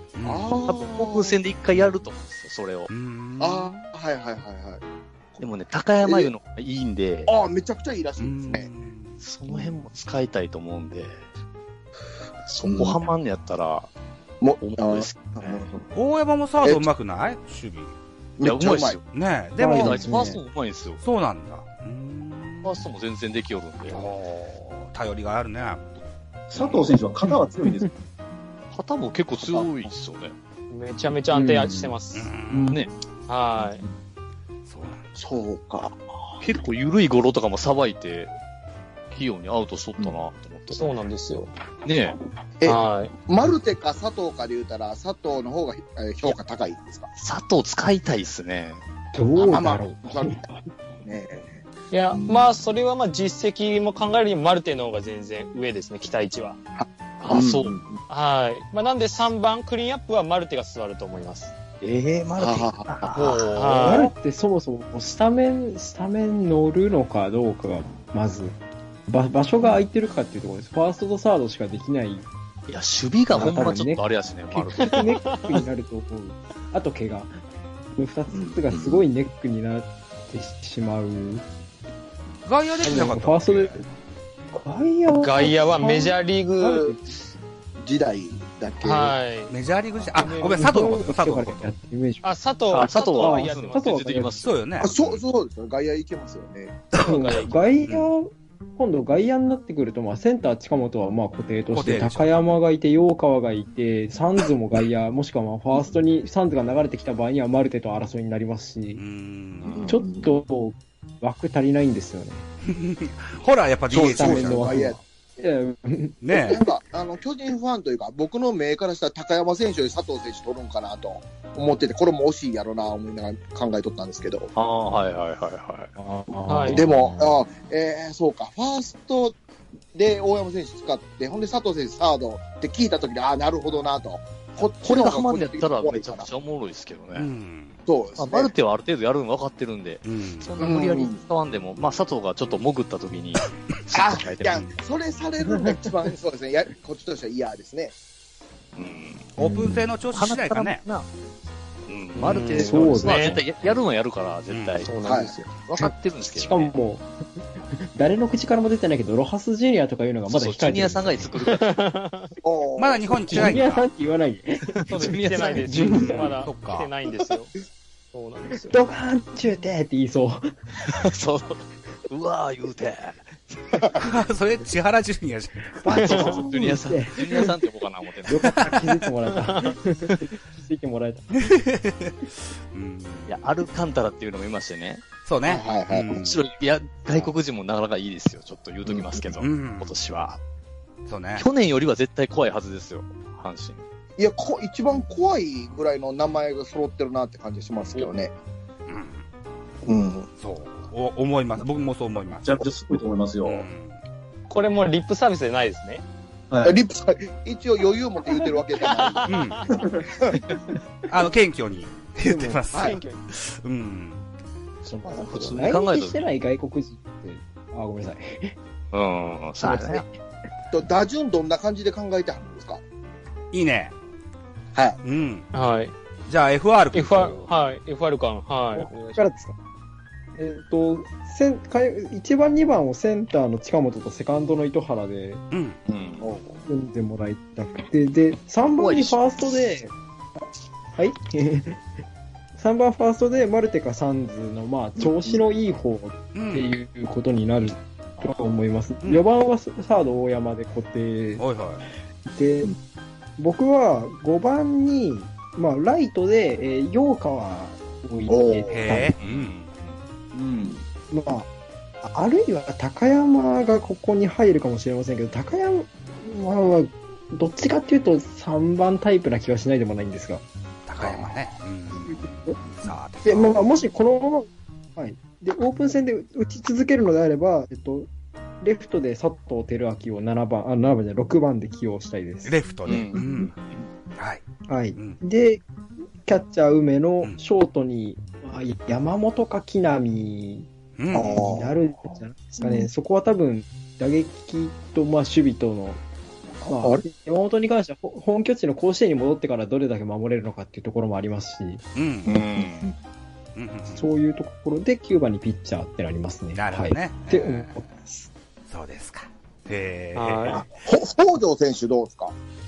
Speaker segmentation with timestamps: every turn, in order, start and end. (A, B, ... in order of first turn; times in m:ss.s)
0:00.1-0:00.6 A
0:00.2-0:01.9 B
0:00.7-0:02.9 C
0:02.9-0:03.8 A
0:03.4-0:04.8 B
0:05.4-0:07.3 C
0:06.0-0:06.3 B
0:07.2-0:08.7 B
0:08.2-0:09.2 A
0:09.2-0:11.2 C
0:09.5-0:09.8 B
0:12.5-0:13.9 C
0:12.6-0:13.1 B
0:14.4-0:15.9 B
0:14.6-0:15.7 C
0:15.9-0:17.9 A
0:18.4-0:19.0 B
0:18.4-0:19.0 C
0:19.0-0:20.2 A
0:19.6-0:20.4 D
0:19.7-0:21.0 C
0:21.0-0:22.9 A
0:22.6-0:24.0 C
0:23.9-0:25.9 A
0:26.5-0:27.9 E
0:26.6-0:26.8 C
0:28.7-0:30.3 C
0:29.4-0:29.9 B
0:30.7-0:32.3 F
0:31.3-0:31.9 D
0:32.1-0:32.8 A
0:32.5-0:32.8 D
0:33.3-0:33.8 F
0:34.6-0:35.1 A
0:35.2-0:36.4 B
0:36.4-0:38.3 C
0:39.1-0:41.0 C
0:40.7-0:41.5 F
0:41.8-0:42.2 C
0:42.6-0:47.1 B
0:42.6-0:43.1 F
0:47.2-0:48.8 C
0:49.1-0:50.6 D
0:49.4-0:50.4 B
0:51.0-0:51.6 B
0:51.9-0:56.6 F
0:52.1-0:52.5 B
0:56.8-0:58.0 B
0:57.2-0:57.8 C
0:58.1-1:01.5 F
1:01.8-1:03.8 C
1:02.4-1:03.5 B
1:03.5-1:04.1 F
1:03.8-1:08.6 D
1:09.1-1:12.3 D
1:12.7-1:15.1 C
1:13.3-1:17.4 D
1:14.8-1:15.6 F
1:18.0-1:21.4 D
1:18.3-1:19.0 B
1:22.4-1:23.8 A
1:22.8-1:23.8 D
1:24.5-1:27.0 D
1:25.1-1:26.9 F
1:27.8-1:29.2 B
1:28.8-1:29.5 F
1:29.5-1:31.7 A
1:30.1-1:31.0 F
1:30.4-1:32.2 D
1:32.2-1:34.0 F
1:32.7-1:34.9 C
1:32.8-1:34.4 D
1:34.4-1:35.2 A
1:34.8-1:36.9 B
1:37.0-1:37.7 F
1:37.0-1:49.0 D
1:37.8-1:38.1 A
1:41.7-1:42.5 A
1:49.0-1:50.0 A
1:49.6-1:50.4 B
1:49.8-1:52.4 D
1:52.7-1:55.0 A
1:53.9-1:55.0 B
1:54.0-1:56.6 D
1:56.2-1:56.6 A
1:56.4-2:04.5 B
2:04.5-2:05.9 C
2:06.0-2:06.9 D
2:06.5-2:06.9 F
2:06.7-2:09.4 B
2:06.8-2:07.4 C
2:09.9-2:16.3 B
2:14.6-2:17.3 C
2:17.2-2:17.8 A
2:17.8-2:18.5 B
2:18.2-2:24.7 C
2:20.0-2:20.5 A
2:20.6-2:21.2 B
2:23.9-2:27.9 B
2:28.8-2:29.3 C
2:29.4-2:29.8 D
2:29.4-2:30.8 A
2:30.1-2:31.1 C
2:31.9-2:34.9 C
2:32.2-2:33.4 D
2:32.2-2:33.4 F
2:34.5-2:34.8 A
2:34.8-2:35.5 F
2:35.0-2:35.4 B
2:35.7-2:36.7 C
2:35.8-2:37.0 D
2:37.8-2:41.3 D
2:40.3-2:41.9 C
2:41.4-2:42.3 F
2:42.4-2:43.5 B
2:42.8-2:43.9 A
2:43.3-2:46.3 D
2:44.9-2:45.8 C
2:44.9-2:47.5 F
2:45.9-2:46.9 A
2:48.1-2:48.8 F
2:48.7-2:50.5 D
2:50.8-2:53.8 C
2:53.9-2:55.8 A
2:55.7-2:57.6 D
2:55.8-2:58.6 C
2:56.0-2:56.5 F
2:58.3-3:01.3 D
2:58.4-2:58.9 A
2:59.4-2:59.8 F
3:01.3-3:03.4 A
3:03.3-3:05.0 C
3:05.2-3:06.4 A
3:05.4-3:06.1 B
3:06.1-3:10.4 C
3:08.8-3:09.2 B
3:09.4-3:09.9 A
3:11.0-3:11.4 A
3:11.4-3:13.8 C
3:14.2-3:18.3 B
3:18.9-3:19.2 A
3:19.8-3:20.3 B
3:20.4-3:22.5 A
3:22.3-3:23.7 E
3:23.4-3:24.0 A
3:24.5-3:26.0 F
3:26.5-3:26.8 E
3:26.6-3:30.4 B
3:28.8-3:29.8 F
3:29.3-3:29.7 A
3:31.1-3:34.2 A
3:32.2-3:32.6 D
3:32.7-3:33.2 F
3:32.7-3:33.0 B
3:34.8-3:38.6 D
3:35.0-3:36.3 C
3:35.2-3:35.5 B
3:38.9-3:40.0 C
3:39.6-3:40.1 D
3:40.7-3:42.8 B
3:43.5-3:43.9 A
3:44.7-3:45.0 B
3:45.0-3:45.5 A
3:45.5-3:45.9 F
3:46.3-3:47.4 A
3:46.9-3:49.3 F
3:48.7-3:49.5 D
3:50.4-3:55.4 D
3:55.5-3:55.8 A
3:55.9-3:56.3 C
3:56.2-3:56.6 B
3:56.6-3:59.9 D
3:58.8-3:59.2 C
4:00.9-4:01.8 D
4:02.6-4:11.4 D
4:05.0-4:05.4 B
4:06.3-4:06.7 A
4:11.4-4:11.8 A
4:12.3-4:12.7 D
4:13.4-4:19.1 D
4:18.3-4:18.8 B
4:18.7-4:19.6 A
4:19.2-4:20.0 C
4:20.3-4:20.8 E
4:21.1-4:21.5 D
4:22.0-4:30.4 D
4:30.8-4:33.7 A
4:31.0-4:31.3 D
4:31.9-4:32.6 D
4:33.2-4:38.1 D
4:38.6-4:42.6 D
4:42.4-4:43.5 A
4:42.9-4:43.2 C
4:44.2-4:44.4 A
4:44.7-4:45.6 D
4:46.2-4:56.0 D
4:51.0-4:51.4 A
4:51.1-4:51.8 B
4:56.6-5:01.8 D
4:56.6-4:57.0 B
5:01.9-5:02.4 A
5:02.3-5:02.9 C
5:03.5-5:04.1 A
5:03.9-5:08.3 D
5:06.5-5:07.8 A
5:08.7-5:10.7 A
5:10.1-5:10.6 F
5:10.5-5:12.3 B